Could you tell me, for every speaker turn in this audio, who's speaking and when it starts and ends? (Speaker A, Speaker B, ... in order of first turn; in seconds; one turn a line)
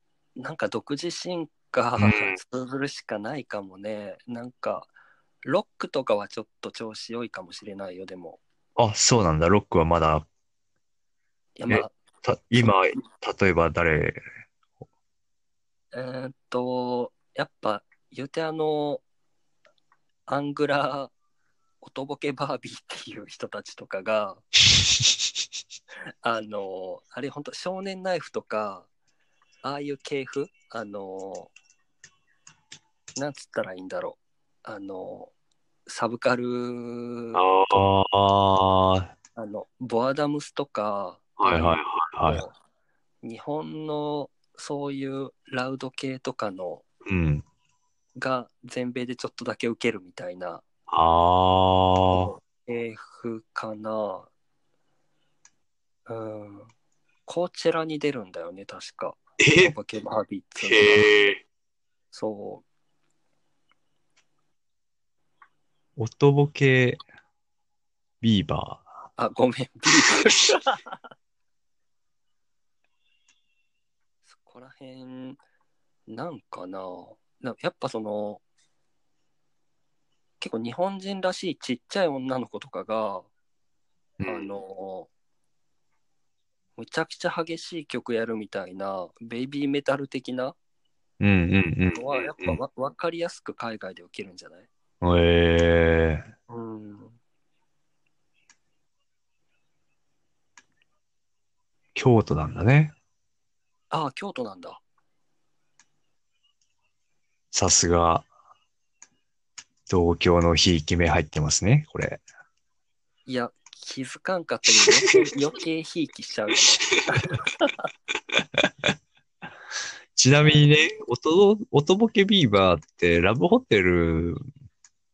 Speaker A: 0.4-4.9
Speaker B: 2.0-2.4
Speaker A: 5.4-8.4
Speaker B: 8.8-10.3
Speaker A: 11.6-11.9
Speaker B: 11.7-14.2
Speaker A: 15.9-19.0
Speaker A: 20.3-21.1
Speaker A: 21.8-24.4
Speaker A: 26.2-28.9
Speaker A: 29.6-31.5
Speaker A: 33.2-35.3
Speaker A: 35.9-37.9
Speaker B: 37.4-39.1
Speaker A: 39.4-42.5
Speaker B: 41.4-42.4
Speaker A: 43.2-46.8
Speaker B: 47.1-47.5
Speaker A: 48.2-50.6
Speaker B: 50.9-52.3
Speaker A: 52.1-54.3
Speaker A: 56.1-56.7
Speaker A: 57.3-61.3
Speaker B: 59.4-59.8
Speaker B: 60.6-61.4
Speaker A: 62.1-62.6
Speaker B: 66.0-67.0
Speaker B: 68.2-68.9
Speaker A: 69.2-71.0
Speaker A: 74.3-75.4
Speaker A: 76.1-78.4
Speaker A: 80.4-83.3
Speaker B: 84.2-84.5
Speaker A: 84.2-85.1
Speaker A: 86.8-90.6
Speaker B: 91.2-92.6
Speaker A: 91.9-94.7
Speaker B: 95.0-96.3
Speaker A: 96.5-97.2
Speaker B: 102.0-102.9
Speaker A: 103.9-104.8
Speaker B: 107.5-108.3
Speaker B: 109.9-112.2
Speaker A: 113.3-117.8
Speaker B: 118.4-118.7
Speaker B: 120.2-124.4
Speaker A: 120.4-120.9